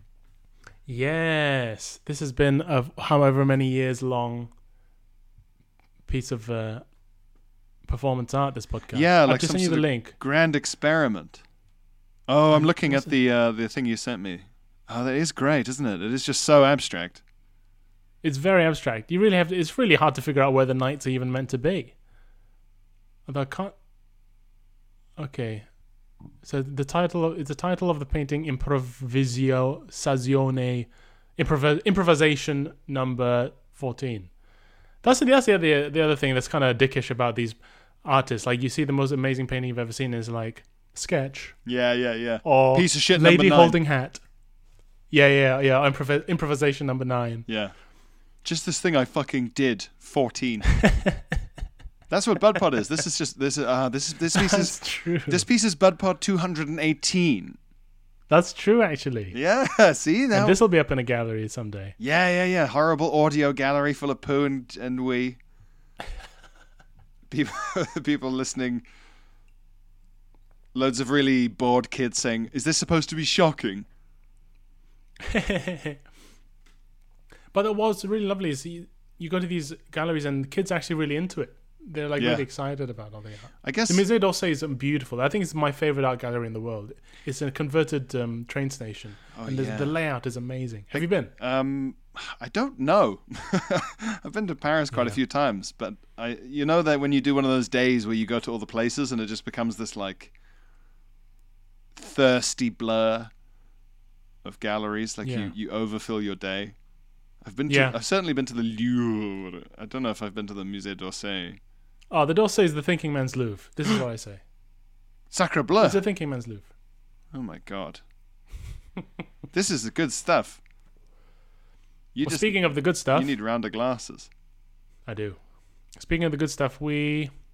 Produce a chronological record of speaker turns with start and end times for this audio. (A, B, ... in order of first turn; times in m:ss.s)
0:00.9-0:04.5 A
0:06.1-0:06.8 A
0:07.9-0:10.2 A
0:08.9-0:11.4 B
0:12.3-0:17.2 B
0:12.5-0:13.1 A
0:18.2-0:22.0 A
0:23.3-0:23.7 A
0:25.2-0:25.7 A
0:26.4-0:34.3 A
0:35.0-0:41.6 A
0:41.7-0:43.8 B
0:42.4-0:44.2 A
0:45.1-0:47.5 A
0:47.5-0:47.7 B
0:48.4-0:50.7 B
0:50.8-0:51.2 A
0:52.1-0:57.6 B
0:54.3-0:55.5 A
0:58.3-0:59.4 A
0:59.3-1:00.6 B
1:00.3-1:02.0 A
1:02.0-1:05.4 B
1:07.3-1:08.8 B
1:10.7-1:13.9 B
1:15.2-1:16.0 A
1:17.5-1:31.3 A
1:22.2-1:22.4 B
1:23.6-1:24.0 B
1:29.4-1:30.0 B
1:30.9-1:40.3 B
1:34.9-1:35.2 A
1:42.0-1:43.3 B
1:44.4-1:46.8 B
1:45.2-1:45.5 A
1:47.4-1:51.6 B
1:47.7-1:48.0 A
1:52.1-1:54.4 A
1:55.3-1:56.0 B
1:55.8-1:56.7 A
1:57.3-1:58.0 B
1:59.5-2:00.6 B
2:02.1-2:04.3 B
2:02.2-2:03.4 A
2:05.1-2:05.4 A
2:06.0-2:07.3 A